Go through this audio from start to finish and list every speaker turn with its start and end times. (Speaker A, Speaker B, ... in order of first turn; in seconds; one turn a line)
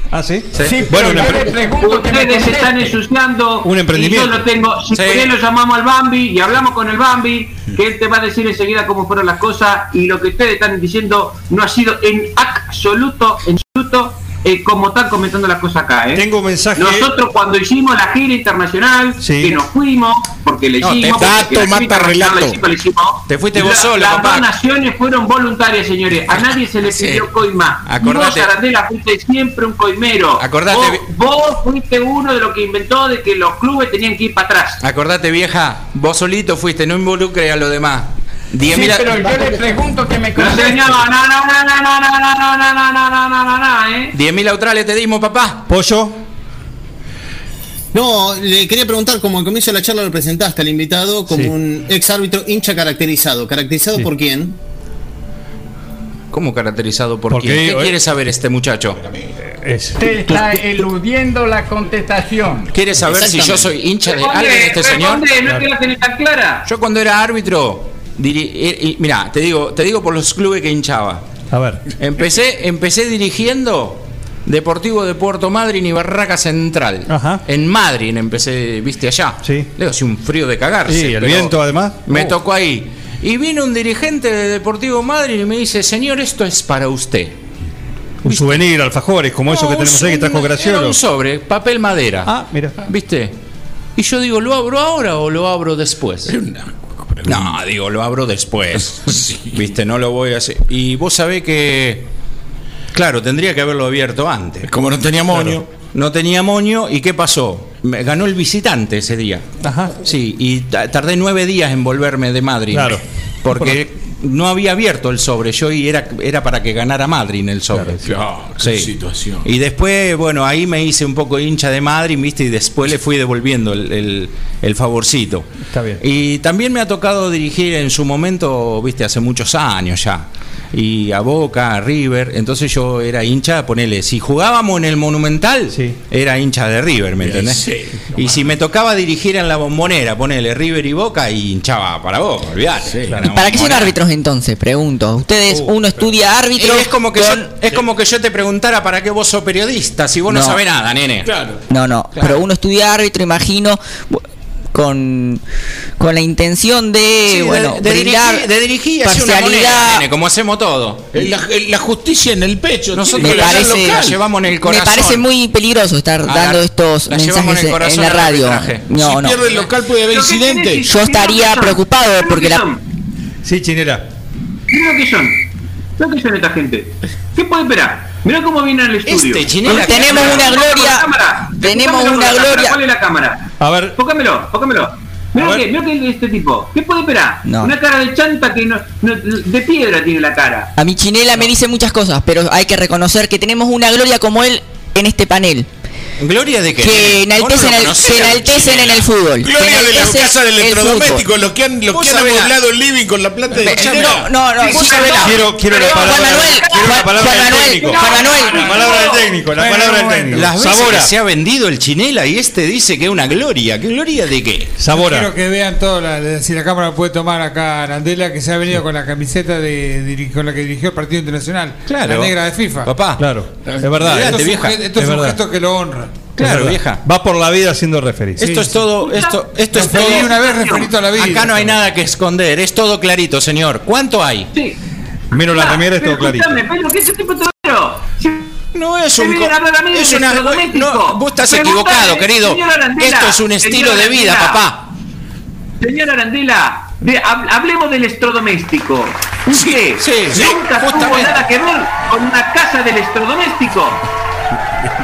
Speaker A: 0.1-1.5
Speaker B: 0.5-0.9
Speaker C: 0.6-3.0
Speaker D: 1.5-34.8
Speaker A: 3.6-4.4
Speaker B: 4.9-5.3
Speaker A: 16.1-17.1
Speaker A: 19.2-19.6
Speaker B: 20.8-21.4
Speaker E: 21.1-22.6
Speaker B: 23.3-24.5
Speaker B: 26.4-27.3
Speaker B: 27.8-28.5
Speaker B: 30.4-31.1
Speaker B: 34.8-39.4
Speaker C: 38.7-41.0
Speaker D: 40.4-44.1
Speaker B: 44.1-45.7
Speaker A: 45.7-46.2
Speaker F: 47.9-54.5
Speaker B: 56.3-59.0
Speaker A: 57.3-58.0
Speaker A: 59.5-60.0
Speaker C: 60.0-62.7
Speaker B: 62.7-65.2
Speaker F: 63.0-63.7
Speaker D: 64.0-66.7
Speaker B: 66.7-71.2
Speaker A: 71.5-71.8
Speaker B: 72.0-87.4
Speaker A: 77.1-77.4
Speaker A: 79.4-79.7
Speaker A: 80.9-82.3
Speaker A: 88.2-91.0
Speaker B: 88.2-88.7
Speaker B: 89.5-93.3
Speaker A: 92.3-92.8
Speaker B: 94.0-96.3
Speaker E: 96.3-97.6
Speaker B: 97.2-102.1
Speaker E: 99.1-99.6
Speaker B: 102.9-104.7
Speaker E: 104.7-105.7
Speaker B: 105.9-109.5
Speaker A: 109.6-110.0
Speaker B: 110.0-118.1
Speaker A: 112.7-113.8
Speaker A: 117.7-118.0
Speaker E: 118.0-119.5
Speaker B: 118.6-144.0
Speaker A: 125.7-126.0
Speaker A: 135.7-136.0
Speaker E: 137.2-138.5
Speaker E: 142.9-143.3
Speaker G: 143.3-147.5
Speaker A: 145.5-146.0
Speaker B: 146.6-151.3
Speaker G: 150.3-150.6
Speaker E: 151.2-151.6
Speaker G: 151.7-154.2
Speaker G: 154.7-155.4
Speaker G: 156.0-158.5
Speaker B: 157.3-161.3
Speaker G: 159.0-160.1
Speaker E: 161.1-164.2
Speaker B: 162.9-165.3
Speaker G: 163.2-169.4
Speaker B: 166.2-168.9
Speaker E: 168.9-170.9
Speaker D: 170.1-172.8
Speaker G: 170.9-172.6
Speaker A: 173.4-174.1
Speaker D: 174.7-175.4
Speaker D: 176.0-190.7
Speaker B: 179.1-180.6
Speaker G: 179.6-182.8
Speaker A: 183.6-184.0
Speaker A: 185.4-185.6
Speaker G: 187.4-187.7
Speaker G: 190.8-195.7
Speaker B: 196.2-199.1
Speaker G: 196.8-201.2
Speaker E: 199.4-204.3
Speaker B: 201.9-202.5
Speaker B: 203.6-205.3
Speaker G: 203.6-205.3
Speaker D: 204.5-209.3
Speaker A: 205.2-211.1
Speaker G: 205.9-208.8
Speaker H: 209.5-210.5
Speaker B: 210.3-214.8
Speaker A: 214.8-215.3
Speaker H: 214.9-222.9
Speaker B: 221.9-223.3
Speaker A: 223.2-225.4
Speaker H: 223.9-226.2
Speaker B: 224.0-224.8
Speaker B: 226.4-227.0
Speaker A: 226.4-228.7
Speaker B: 228.4-230.3
Speaker D: 229.0-231.0
Speaker H: 229.7-231.8
Speaker B: 231.1-234.5
Speaker A: 235.3-236.6
Speaker D: 235.3-244.6
Speaker B: 238.7-244.9
Speaker D: 245.8-254.0
Speaker B: 249.5-251.5